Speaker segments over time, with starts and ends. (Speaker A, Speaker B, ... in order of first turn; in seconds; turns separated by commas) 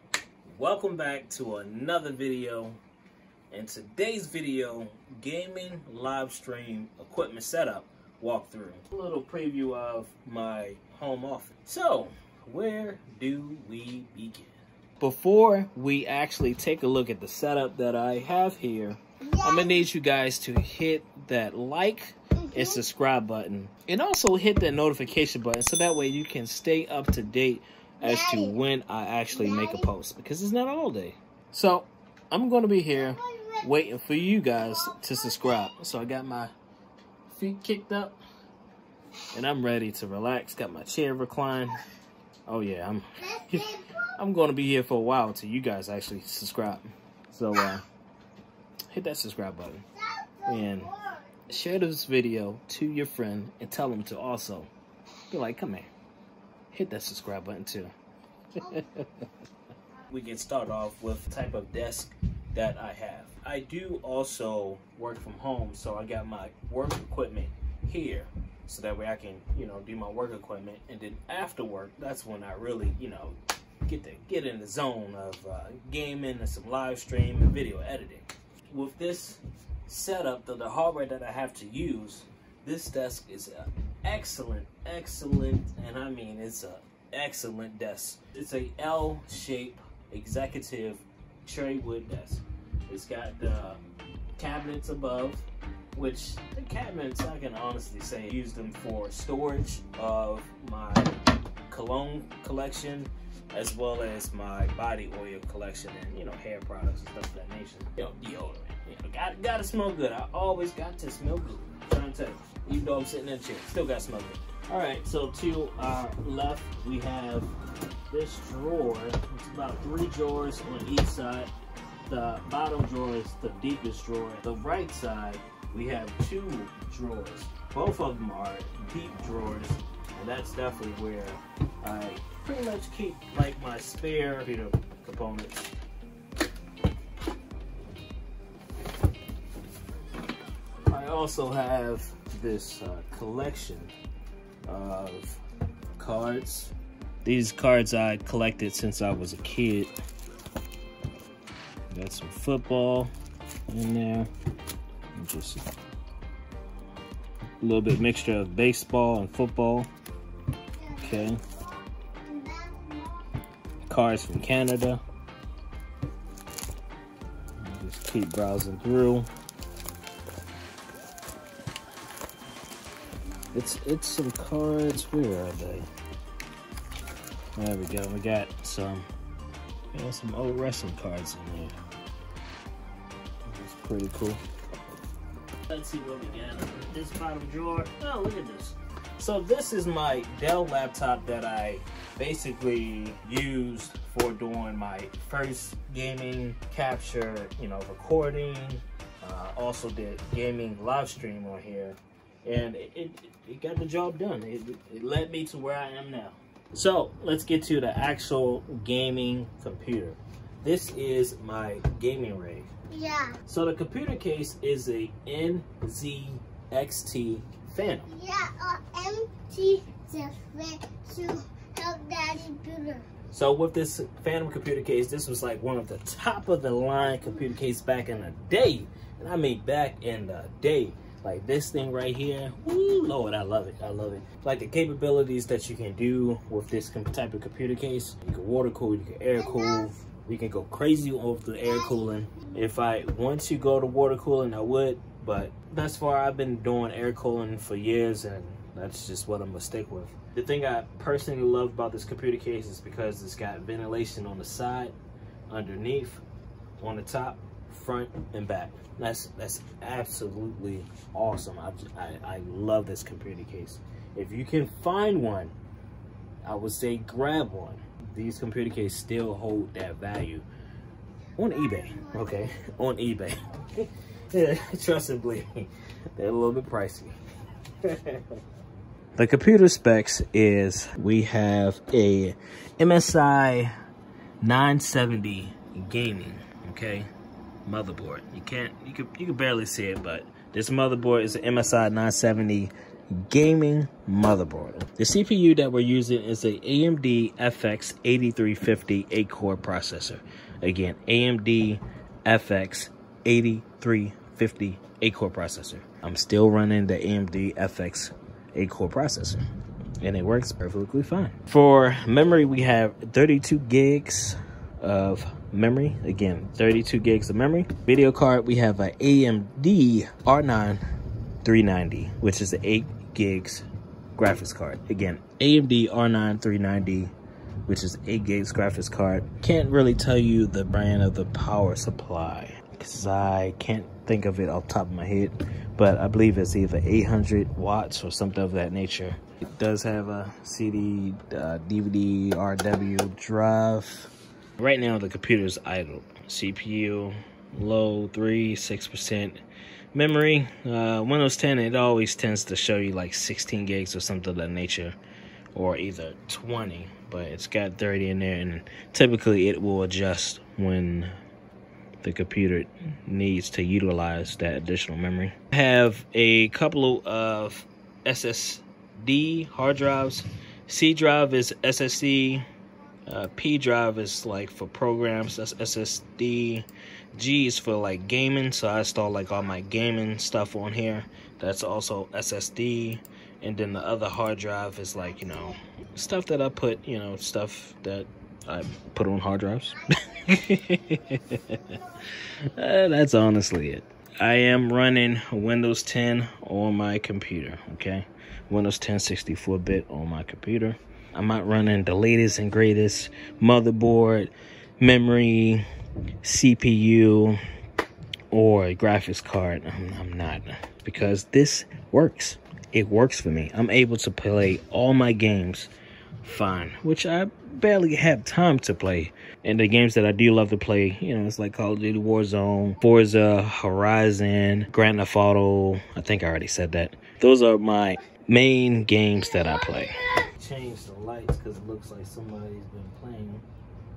Speaker A: 0.4-2.8, Speaker A: 3.5-36.5, Speaker B: 19.2-19.8, Speaker B: 22.4-22.8, Speaker B: 28.0-28.6, Speaker B: 29.3-29.9, Speaker B: 32.9-35.7, Speaker A: 37.3-38.2, Speaker A: 39.3-41.8, Speaker A: 42.5-47.8, Speaker B: 43.2-44.1, Speaker A: 48.9-49.8, Speaker B: 49.9-51.4, Speaker A: 50.5-50.9, Speaker A: 51.5-54.7, Speaker A: 55.3-55.9, Speaker A: 56.7-57.9, Speaker A: 58.6-59.1, Speaker B: 58.6-58.9, Speaker A: 60.1-93.8, Speaker A: 94.4-101.1, Speaker A: 101.7-117.5, Speaker A: 118.1-121.5, Speaker A: 122.1-135.7, Speaker A: 140.9-143.9, Speaker A: 144.7-145.4, Speaker A: 146.0-146.7, Speaker A: 147.2-149.9, Speaker A: 151.9-153.1, Speaker A: 153.7-154.3, Speaker A: 155.1-155.6, Speaker A: 157.6-159.9, Speaker B: 160.7-163.3, Speaker A: 161.0-161.4, Speaker A: 163.9-165.0, Speaker A: 167.6-169.3, Speaker A: 173.5-175.9, Speaker A: 177.6-179.0, Speaker A: 179.9-181.7, Speaker A: 183.5-184.4, Speaker A: 185.7-212.7, Speaker B: 212.9-213.4, Speaker A: 213.4-218.1, Speaker B: 218.1-223.1, Speaker A: 223.3-254.9, Speaker B: 239.3-239.9, Speaker B: 241.6-242.6, Speaker A: 255.5-256.2, Speaker A: 256.8-265.5, Speaker A: 266.4-270.4, Speaker A: 271.4-277.1, Speaker B: 271.7-272.6, Speaker A: 277.8-278.2, Speaker A: 279.1-283.7, Speaker A: 284.4-287.1, Speaker A: 287.6-309.4, Speaker A: 310.0-320.8, Speaker A: 321.4-327.1, Speaker A: 327.7-349.4, Speaker A: 349.9-354.9, Speaker A: 355.5-361.1, Speaker A: 362.0-372.4, Speaker A: 373.1-391.8, Speaker B: 390.0-390.4, Speaker A: 392.4-405.6, Speaker A: 406.2-407.4, Speaker A: 408.3-415.7, Speaker A: 416.2-433.4, Speaker B: 429.3-430.2